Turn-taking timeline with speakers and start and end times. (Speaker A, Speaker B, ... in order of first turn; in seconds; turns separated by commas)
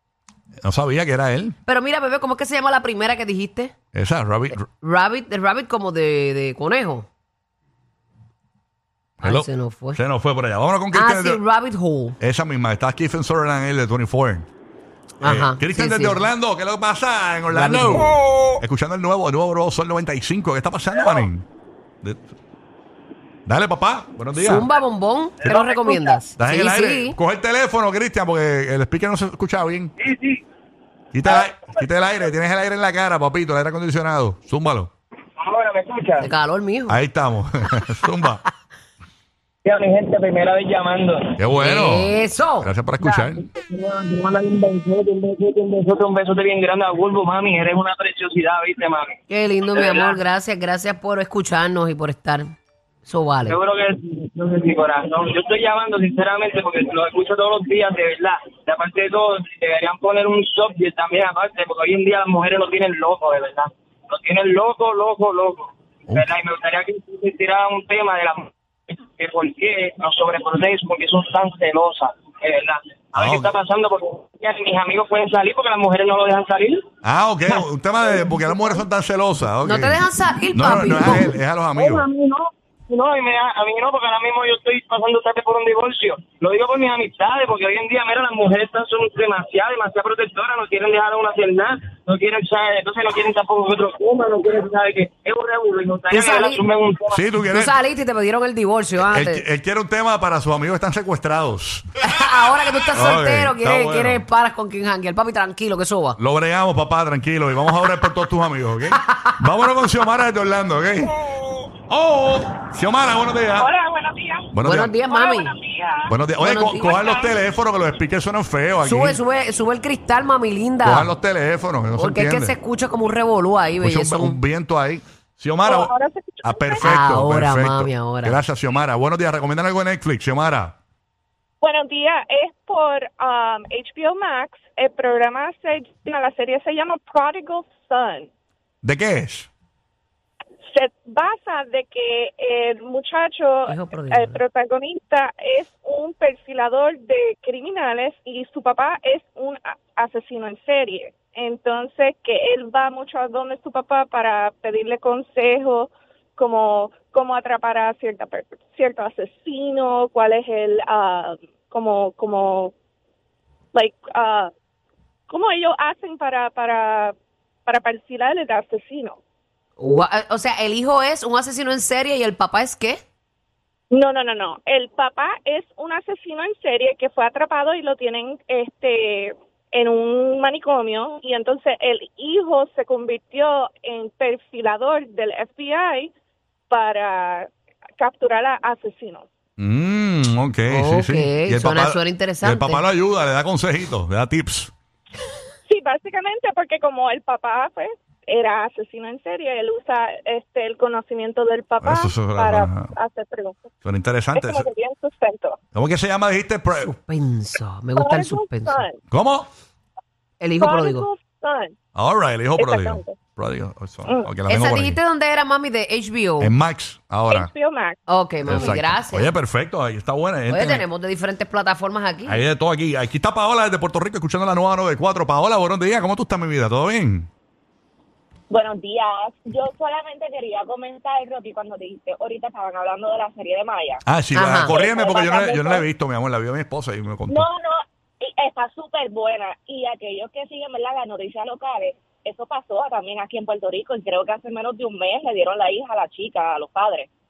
Speaker A: 0.6-1.6, Speaker B: 1.7-3.7, Speaker A: 3.9-4.6, Speaker B: 4.6-7.1, Speaker A: 9.2-11.4, Speaker B: 9.2-10.0, Speaker B: 10.9-12.2, Speaker A: 12.2-14.5, Speaker B: 15.2-16.3, Speaker A: 15.2-21.4, Speaker B: 17.5-18.1, Speaker A: 23.5-24.7, Speaker B: 24.4-27.2, Speaker C: 25.4-26.2, Speaker A: 26.4-29.9, Speaker C: 30.0-30.4, Speaker A: 31.1-34.9, Speaker C: 31.3-32.3, Speaker C: 35.4-36.3, Speaker B: 36.2-37.0, Speaker A: 36.9-38.4, Speaker C: 39.6-41.4, Speaker A: 41.4-43.4, Speaker B: 41.6-42.7, Speaker C: 43.0-49.1, Speaker B: 49.3-52.5, Speaker C: 49.7-50.2, Speaker B: 53.1-53.6, Speaker C: 53.5-76.8, Speaker A: 73.2-73.5, Speaker A: 77.0-80.0, Speaker C: 77.5-78.5, Speaker B: 79.6-81.4, Speaker A: 80.5-82.0, Speaker C: 81.8-97.2, Speaker B: 96.1-96.6, Speaker A: 97.1-97.8, Speaker B: 97.4-99.5, Speaker A: 99.0-101.9, Speaker B: 102.0-106.2, Speaker A: 103.0-104.2, Speaker A: 106.2-111.1, Speaker B: 109.0-109.3, Speaker A: 111.9-113.7, Speaker D: 113.6-114.5, Speaker A: 114.5-115.0, Speaker B: 114.6-115.5, Speaker D: 115.1-116.1, Speaker A: 116.1-119.2, Speaker B: 116.4-117.0, Speaker D: 116.8-117.3, Speaker B: 118.8-121.1, Speaker A: 120.8-122.6, Speaker B: 122.0-124.4, Speaker A: 123.8-130.8, Speaker E: 125.7-127.0, Speaker B: 126.8-128.4, Speaker E: 131.6-138.3, Speaker A: 138.8-139.5, Speaker E: 140.7-162.8, Speaker B: 143.7-144.4, Speaker E: 163.7-164.5, Speaker E: 165.3-169.2, Speaker B: 169.8-173.0, Speaker E: 173.9-186.1, Speaker E: 186.7-189.3, Speaker A: 189.6-194.7, Speaker B: 190.7-192.8, Speaker E: 195.7-203.7, Speaker A: 201.8-202.9, Speaker A: 203.8-204.7, Speaker E: 204.4-205.6, Speaker A: 205.7-206.9, Speaker B: 206.8-208.9, Speaker E: 208.0-208.9, Speaker A: 209.1-209.5, Speaker B: 210.4-211.1, Speaker E: 210.6-211.8, Speaker A: 212.0-215.0, Speaker E: 212.6-213.2, Speaker B: 214.5-216.5, Speaker A: 216.4-217.5, Speaker E: 217.3-218.0, Speaker B: 218.1-219.3, Speaker A: 218.4-220.9, Speaker B: 220.5-222.4, Speaker A: 222.3-227.3, Speaker D: 228.5-234.1, Speaker A: 234.1-237.4, Speaker B: 234.3-234.9, Speaker D: 234.6-235.8, Speaker D: 237.3-247.1